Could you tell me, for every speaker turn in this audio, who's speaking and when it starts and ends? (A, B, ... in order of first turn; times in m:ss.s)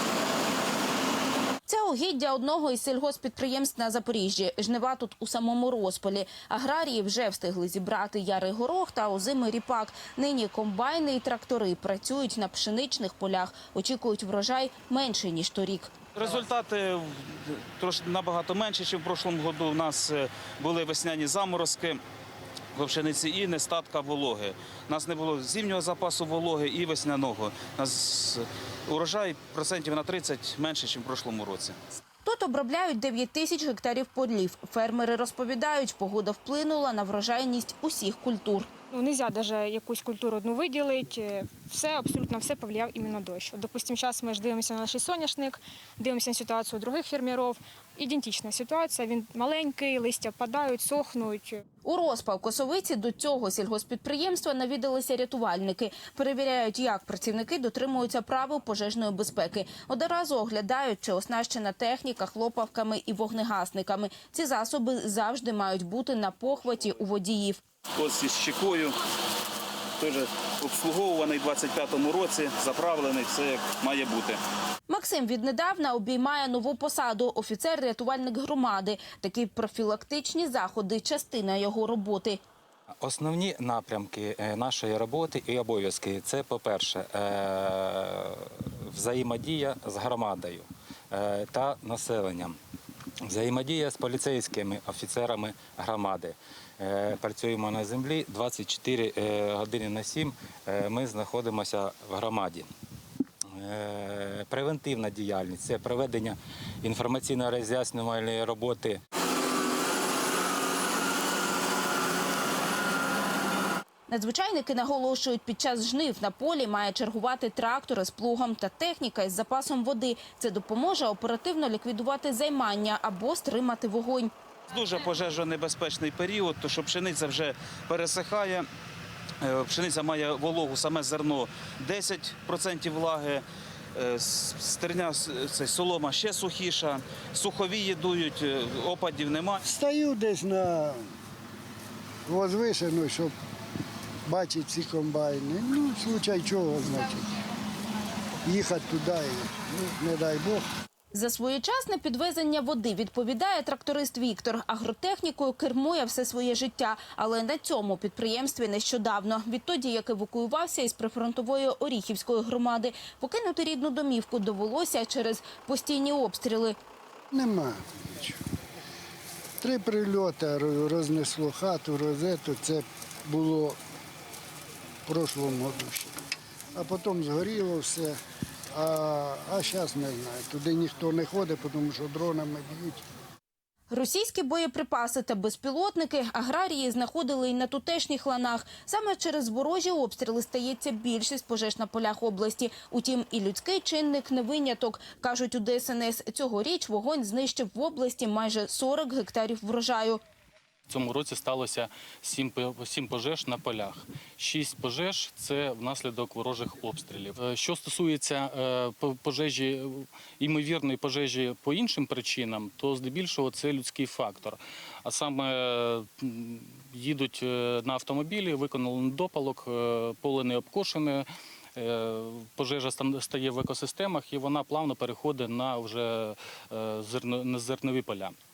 0:01.7-0:15.9 A
0:16.2-0:22.0 B
0:22.7-0:31.8 B
0:32.2-0:38.7 A
0:38.9-0:51.6 C
0:51.8-1:07.6 A
1:08.0-1:09.0 B
1:10.0-1:14.4 B
1:14.9-1:22.4 A
1:23.0-1:32.6 D
1:33.3-1:42.7 D
1:43.6-1:49.0 D
1:54.1-2:04.3 A
2:04.7-2:08.7 B
2:09.4-2:19.6 B
2:19.6-2:21.0 E
2:22.3-2:23.3 E
2:24.3-2:27.3 E
2:28.5-2:30.7 E
2:31.1-2:46.8 A
2:47.3-2:48.4 E
2:49.6-2:53.8 E
2:55.1-2:56.1 E
2:56.8-2:58.2 E
2:58.7-3:03.0 E
3:03.9-3:20.2 A
3:20.9-3:48.4 F